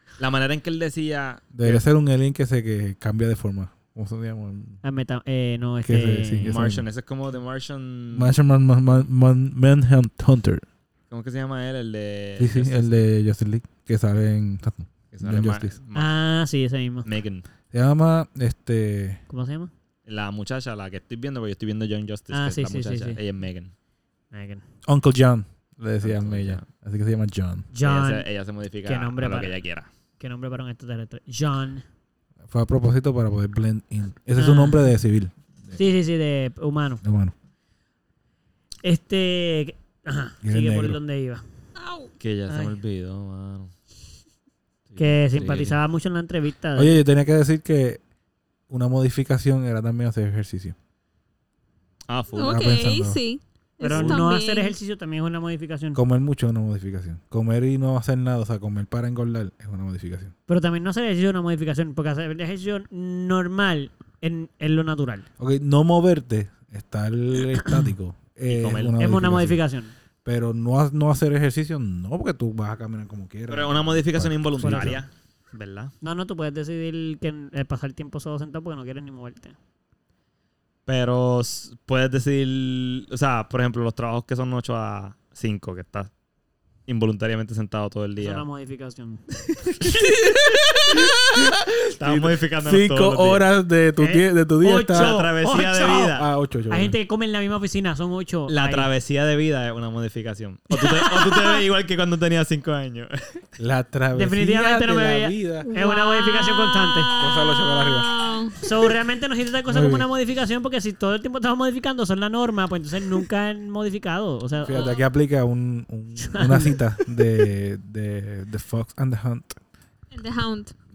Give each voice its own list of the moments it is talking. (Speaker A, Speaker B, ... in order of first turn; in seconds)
Speaker A: 0.2-1.8, 6.5-8.4, 11.1-13.0, 15.1-16.1, 17.0-17.4, 20.1-23.7, 26.0-26.7, 27.8-29.9, 42.2-43.7, 44.9-45.8, 52.1-52.7, 68.5-69.0, 73.5-75.9, 80.9-86.1, 86.9-88.5, 89.5-89.7, 92.0-93.5, 94.9-96.3, 98.5-103.4
Speaker B: 1.5-4.8, 5.8-6.9, 8.1-10.6, 12.4-15.8, 17.7-19.2, 24.9-27.7, 32.5-35.8, 37.0-37.3, 40.4-41.0, 46.8-48.0, 48.7-50.8, 52.4-53.2, 56.0-60.3, 65.4-69.6, 70.2-75.0, 89.8-95.1, 96.2-97.0, 103.6-105.7, 107.2-108.1, 109.7-110.1, 114.6-119.6
Speaker C: 4.8-6.5, 15.9-17.1, 19.3-19.7, 22.3-23.2, 24.3-24.6, 27.7-28.3, 28.9-29.6, 30.2-31.8, 34.4-34.9, 35.7-37.0, 38.8-41.4, 42.5-42.8, 45.0-47.0, 53.8-56.0, 60.5-65.3, 69.0-69.9, 74.6-75.0, 76.0-79.6, 88.2-89.2, 94.0-96.2, 96.7-98.9, 100.9-101.5, 104.1-107.1, 108.6-114.9, 116.2-116.8
Speaker D: 41.8-42.1, 52.4-54.7, 105.7-108.6, 114.7-115.0, 120.1-120.7